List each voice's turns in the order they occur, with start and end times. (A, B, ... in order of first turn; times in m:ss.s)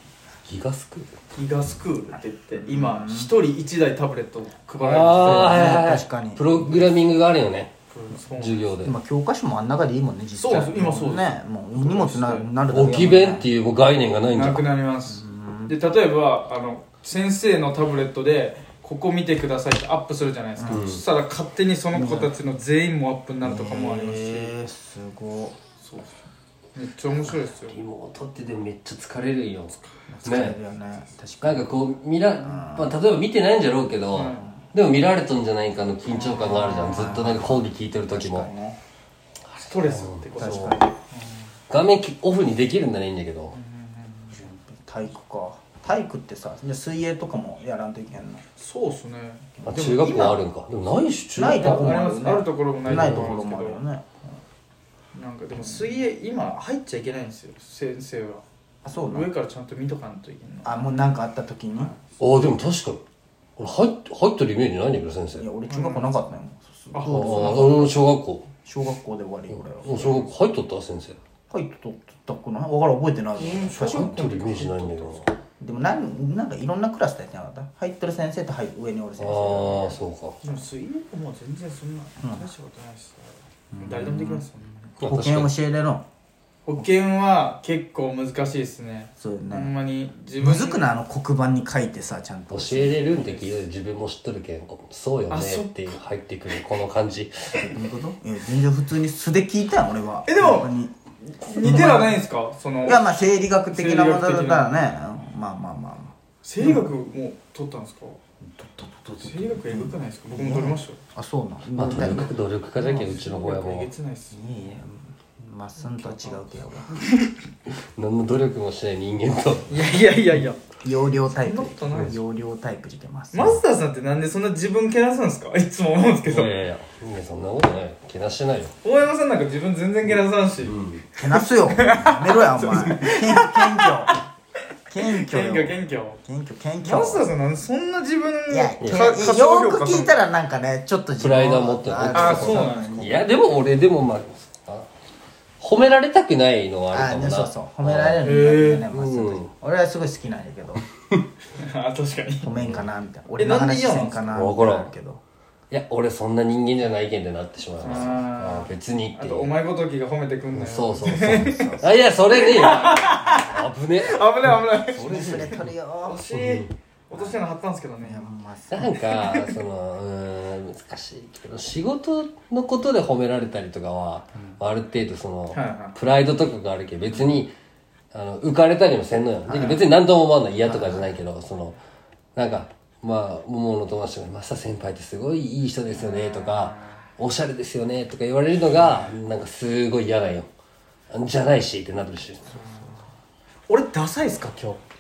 0:00.5-0:01.1 A
0:01.3-0:05.7 B
0:02.6-0:03.3 C
0:04.8-0:07.7 A
0:05.1-0:06.5 C
0:07.9-0:08.7 B
0:08.3-0:09.0 A
0:08.8-0:13.5 C
0:10.4-0:12.5 B
0:12.7-0:14.7 A
0:14.3-0:24.5 B
0:15.1-0:15.8 C
0:20.6-0:20.8 C
0:20.7-0:21.0 A
0:21.9-0:22.3 C
0:23.4-0:25.6 C
0:25.8-0:26.2 B
0:26.8-0:27.8 B
0:27.6-0:30.6 A
0:30.1-0:31.7 C
0:31.4-0:38.5 A
0:32.4-0:32.9 C
0:34.1-0:34.5 B
0:36.1-0:38.8 C
0:39.5-0:41.4 B
0:39.8-0:40.8 A
0:40.4-0:40.9 C
0:41.7-0:43.5 A
0:43.5-0:44.4 B
0:44.3-0:48.4 C
0:48.6-0:50.4 B
0:49.6-0:50.1 C
0:49.6-0:52.0 A
0:51.4-0:54.0 C
0:51.5-0:53.8 B
0:52.9-0:53.3 A
0:55.1-0:58.4 B
0:55.6-0:55.9 C
0:58.8-0:59.3 C
0:59.0-1:00.8 B
1:00.6-1:01.9 C
1:02.2-1:03.0 A
1:03.6-1:05.5 A
1:05.4-1:08.0 C
1:05.7-1:06.2 B
1:06.9-1:07.4 B
1:07.0-1:08.4 A
1:08.6-1:10.3 C
1:09.5-1:11.2 A
1:11.5-1:14.6 C
1:13.4-1:15.3 B
1:13.8-1:15.3 A
1:15.6-1:20.6 C
1:19.2-1:20.4 A
1:20.4-1:25.0 B
1:22.2-1:22.5 C
1:23.7-1:24.4 C
1:25.0-1:25.5 A
1:25.0-1:26.0 C
1:26.7-1:30.9 B
1:29.2-1:29.7 C
1:30.4-1:33.0 C
1:32.5-1:37.8 A
1:35.3-1:36.0 B
1:37.6-1:40.9 C
1:40.3-1:40.7 B
1:41.4-1:43.0 B
1:41.5-1:42.2 C
1:42.8-1:46.9 C
1:43.7-1:44.7 B
1:46.4-1:48.2 B
1:48.4-1:52.3 C
1:49.2-1:51.0 B
1:51.8-1:53.9 A
1:52.8-1:54.4 B
1:54.3-1:57.0 C
1:55.8-1:56.4 B
1:57.7-1:59.7 A
1:59.7-2:00.6 B
2:00.8-2:03.6 C
2:01.4-2:02.2 B
2:03.3-2:06.5 B
2:06.3-2:08.7 A
2:08.8-2:10.8 B
2:10.6-2:11.1 A
2:11.2-2:14.2 C
2:11.3-2:14.2 B
2:14.9-2:17.3 C
2:15.0-2:16.2 B
2:16.8-2:20.2 B
2:18.5-2:23.3 C
2:18.8-2:19.3 A
2:21.2-2:24.9 A
2:22.1-2:23.1 B
2:25.6-2:28.3 A
2:26.9-2:30.8 C
2:28.2-2:28.9 B
2:28.9-2:29.5 A
2:31.6-2:32.5 B
2:32.4-2:35.2 C
2:32.6-2:32.9 A
2:33.4-2:34.4 B
2:34.3-2:34.9 A
2:35.7-2:39.5 A
2:37.8-2:45.5 B
2:40.5-2:44.3 A
2:44.9-2:45.6 A
2:44.9-2:46.2 C
2:46.0-2:48.3 B
2:46.3-2:46.7 A
2:47.1-2:47.4 C
2:48.0-2:49.0 C
2:48.7-2:57.5 A
2:48.9-2:49.6 B
2:55.5-2:56.0 B
2:58.1-3:01.8 A
3:00.6-3:01.0 C
3:02.4-3:10.5 A
3:11.1-3:12.5 A
3:12.5-3:12.9 B
3:13.7-3:14.8 B